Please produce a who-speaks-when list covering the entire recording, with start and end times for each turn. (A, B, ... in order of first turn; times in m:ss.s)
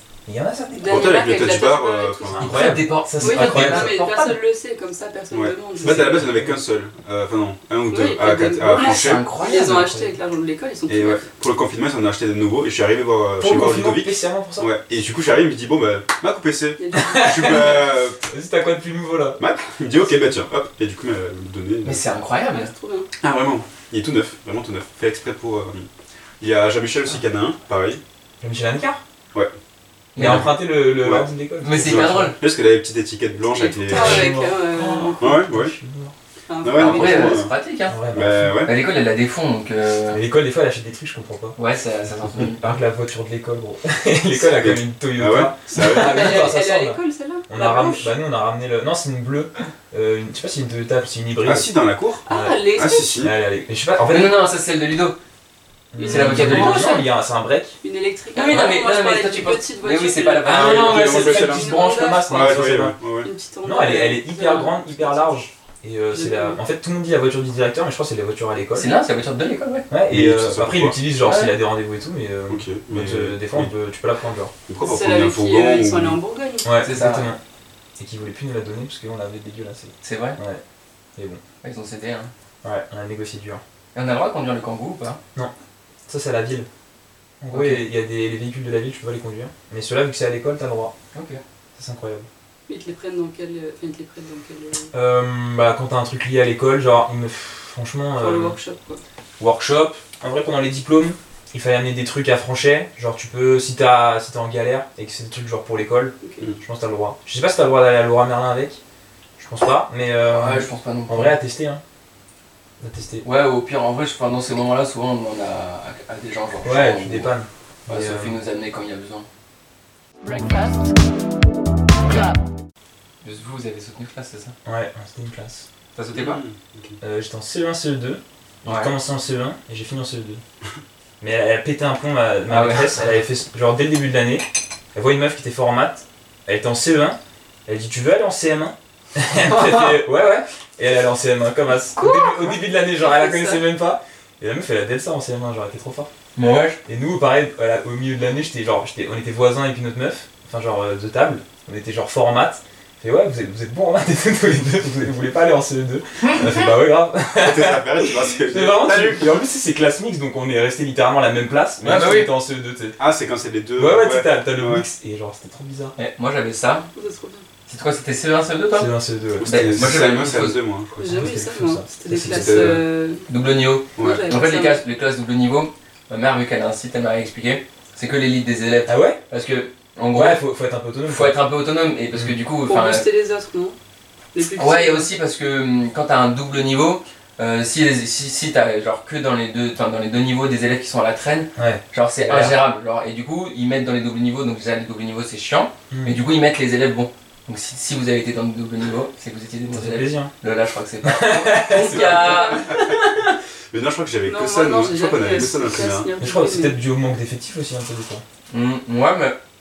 0:00.3-0:01.1 A
0:00.7-0:02.6 B
0:00.9-0:02.6 C
0:02.4-0:04.0 A
0:02.4-0:04.4 D
0:03.2-0:06.3 B
0:05.3-0:09.2 C
0:05.8-0:06.6 A
0:07.9-0:11.2 B
0:08.7-0:10.0 D
0:09.9-0:10.1 A
0:10.9-0:18.2 C
0:13.4-0:14.7 A
0:16.8-0:17.9 B
0:16.9-0:19.4 A
0:19.4-0:22.0 C
0:21.8-0:22.7 D
0:22.5-0:23.1 B
0:23.2-0:25.9 C
0:26.4-0:28.0 C
0:28.4-0:29.0 A
0:30.2-0:30.5 D
0:30.2-0:32.3 A
0:31.0-0:34.4 C
0:31.6-0:32.4 D
0:33.4-0:35.4 B
0:33.9-0:36.2 A
0:35.2-0:35.7 C
0:36.5-0:37.4 B
0:36.6-0:37.5 C
0:36.8-0:38.0 D
0:37.9-0:38.6 A
0:38.1-0:38.8 C
0:38.6-0:40.2 D
0:40.1-0:41.6 A
0:41.6-0:42.7 D
0:42.5-0:51.7 A
0:44.4-0:46.5 C
0:45.8-0:48.1 B
0:51.4-0:53.3 C
0:52.3-0:52.6 A
0:52.3-0:53.2 B
0:53.2-0:54.4 A
0:54.0-0:55.2 D
0:55.9-0:57.8 A
0:56.0-0:57.0 B
0:56.0-0:57.1 D
0:56.3-0:56.7 C
0:57.8-1:05.4 B
0:58.4-1:01.4 D
1:00.4-1:03.0 A
1:00.5-1:03.3 C
1:03.6-1:09.0 A
1:06.1-1:06.6 B
1:08.8-1:09.9 D
1:09.9-1:14.5 A
1:10.1-1:11.0 C
1:11.2-1:11.6 D
1:12.5-1:13.7 C
1:14.7-1:16.2 C
1:14.8-1:16.7 B
1:16.6-1:17.4 A
1:16.8-1:17.3 D
1:18.0-1:20.6 A
1:20.0-1:20.4 D
1:21.2-1:21.4 A
1:21.6-1:22.3 D
1:22.6-1:23.6 A
1:23.9-1:25.2 D
1:26.1-1:26.7 A
1:27.4-1:30.9 A
1:27.5-1:27.9 D
1:31.1-1:31.4 D
1:31.8-1:32.3 A
1:32.7-1:34.9 B
1:34.9-1:38.6 A
1:38.2-1:39.0 B
1:39.4-1:48.8 A
1:46.2-1:46.5 B
1:49.4-1:51.8 A
1:50.2-1:51.4 D
1:52.8-1:53.2 A
1:53.2-1:57.3 D
1:56.6-1:58.4 A
1:57.9-1:59.3 D
2:03.2-2:04.6 D
2:04.6-2:05.7 A
2:06.0-2:06.4 D
2:06.2-2:07.0 C
2:07.0-2:10.4 A
2:08.6-2:08.9 D
2:11.2-2:26.1 A
2:12.5-2:13.0 D
2:19.4-2:19.9 D
2:21.9-2:23.7 B
2:26.4-2:26.8 D
2:26.9-2:43.0 A
2:37.4-2:39.4 C
2:41.8-2:42.3 D
2:43.0-2:44.8 C
2:43.8-2:45.9 A
2:46.0-2:46.9 D
2:47.0-2:47.5 B
2:47.7-2:48.9 D
2:48.7-2:50.0 A
2:49.4-2:51.4 C
2:49.4-2:50.6 D
2:51.0-2:53.3 B
2:51.1-2:52.8 A
2:52.2-2:52.8 C
2:53.3-3:00.4 D
2:54.0-2:54.2 C
2:54.0-2:54.8 B
2:58.9-2:59.2 A
3:00.1-3:01.4 A
3:01.1-3:03.1 D
3:02.7-3:03.8 B
3:04.3-3:05.1 B
3:04.6-3:23.3 D
3:11.6-3:12.6 A
3:15.9-3:16.2 A
3:19.7-3:20.3 A
3:21.0-3:22.4 A
3:21.9-3:23.1 C
3:22.1-3:22.5 B
3:23.7-3:26.1 C
3:24.2-3:26.8 B
3:26.2-3:28.2 A
3:28.5-3:29.4 D